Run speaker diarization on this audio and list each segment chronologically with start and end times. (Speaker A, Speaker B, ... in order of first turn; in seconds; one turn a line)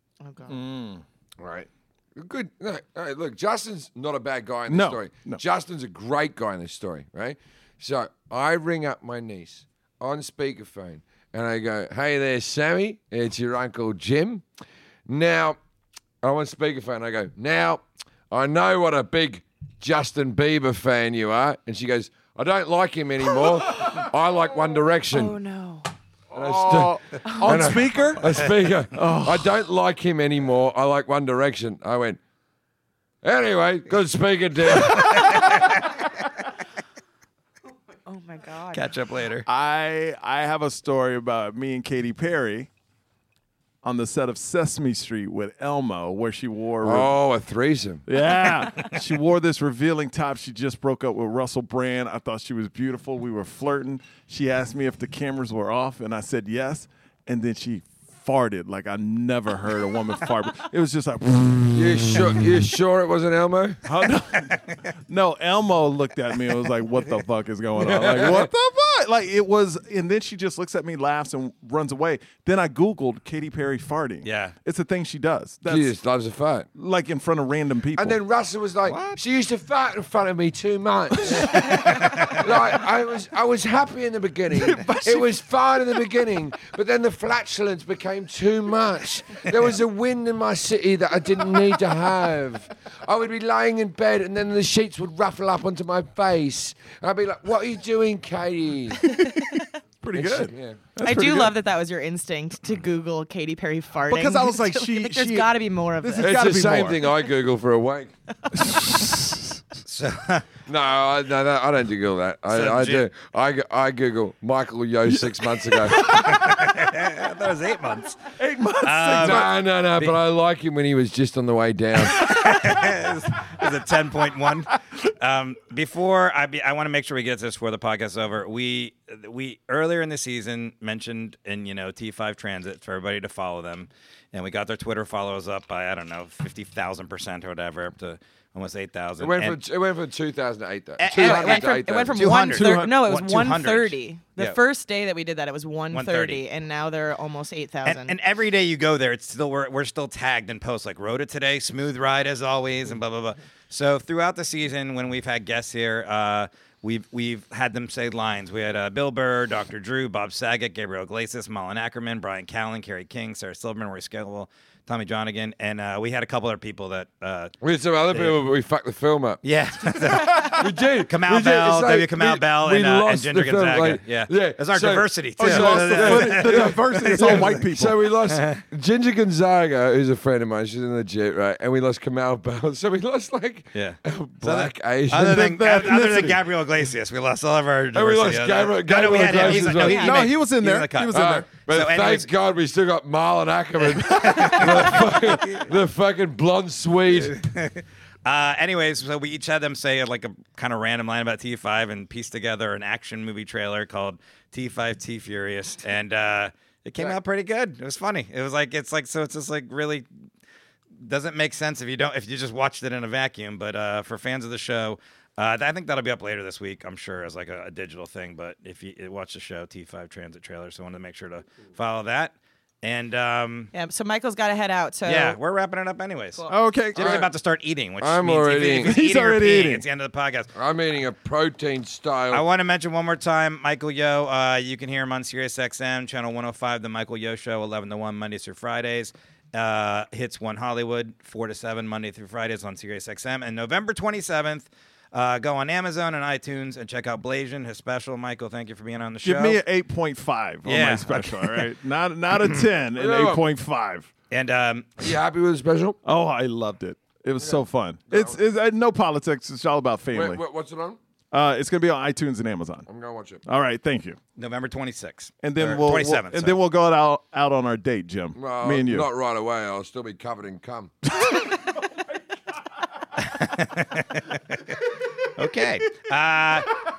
Speaker A: 0.2-0.6
Speaker B: 0.5-1.0
Speaker C: 1.4-14.4
Speaker B: 4.7-5.4
Speaker C: 15.1-15.6
Speaker C: 16.2-25.4
Speaker A: 23.4-24.1
Speaker A: 25.1-25.9
Speaker B: 26.3-29.6
Speaker C: 26.3-32.2
Speaker A: 27.2-27.7
Speaker C: 33.2-35.6
Speaker D: 35.0-36.0
Speaker A: 38.0-38.9
Speaker D: 38.7-39.5
Speaker B: 39.5-42.7
Speaker B: 43.8-47.1
Speaker C: 46.8-48.0
Speaker B: 48.1-62.4
Speaker C: 61.7-63.8
Speaker B: 63.8-75.9
Speaker C: 67.8-68.5
Speaker D: 74.2-74.5
Speaker C: 75.7-76.7
Speaker B: 76.7-78.2
Speaker C: 78.0-99.1
Speaker D: 78.8-79.2
Speaker D: 81.4-82.5
Speaker B: 84.5-85.3
Speaker B: 99.1-101.5
Speaker A: 99.3-99.7
Speaker C: 100.1-100.8
Speaker A: 101.0-106.3
Speaker B: 104.1-107.0
Speaker C: 106.2-108.1
Speaker B: 108.5-109.5
Speaker D: 109.8-110.5
Speaker C: 110.7-116.1
Speaker D: 112.5-113.1
Speaker B: 115.1-116.5
Speaker D: 116.1-118.2
Speaker B: 118.4-119.5
Speaker D: 118.8-120.1
Speaker C: 119.2-122.3
Speaker D: 122.0-139.6
Speaker B: 122.3-122.8
Speaker C: 139.2-142.2
Speaker D: 141.0-144.6
Speaker A: 141.1-148.2
Speaker B: 142.5-142.9
Speaker D: 145.9-146.4
Speaker D: 147.8-167.5
Speaker C: 167.6-186.3
Speaker D: 169.4-178.6
Speaker B: 175.4-177.9
Speaker D: 183.7-192.3
Speaker B: 185.1-186.2
Speaker C: 187.9-190.3
Speaker B: 189.2-191.5
Speaker A: 189.7-190.3
Speaker C: 191.1-197.4
Speaker D: 193.8-195.7
Speaker D: 197.1-210.1
Speaker D: 211.0-223.7
Speaker A: 223.7-225.4
Speaker D: 225.0-230.5
Speaker B: 226.5-227.2
Speaker C: 226.9-227.3
Speaker C: 228.0-229.0
Speaker B: 228.8-229.8
Speaker C: 230.5-232.4
Speaker D: 232.3-249.6
Speaker B: 249.2-254.1
Speaker D: 250.6-251.7
Speaker C: 252.9-253.4
Speaker D: 254.3-254.9
Speaker C: 255.0-256.0
Speaker B: 256.0-260.4
Speaker C: 257.4-258.4
Speaker C: 260.1-261.0
Speaker B: 261.3-262.9
Speaker C: 262.9-263.4
Speaker B: 263.4-264.2
Speaker D: 264.4-266.6
Speaker B: 265.4-269.1
Speaker C: 268.4-270.9
Speaker D: 273.2-274.8
Speaker D: 275.4-276.8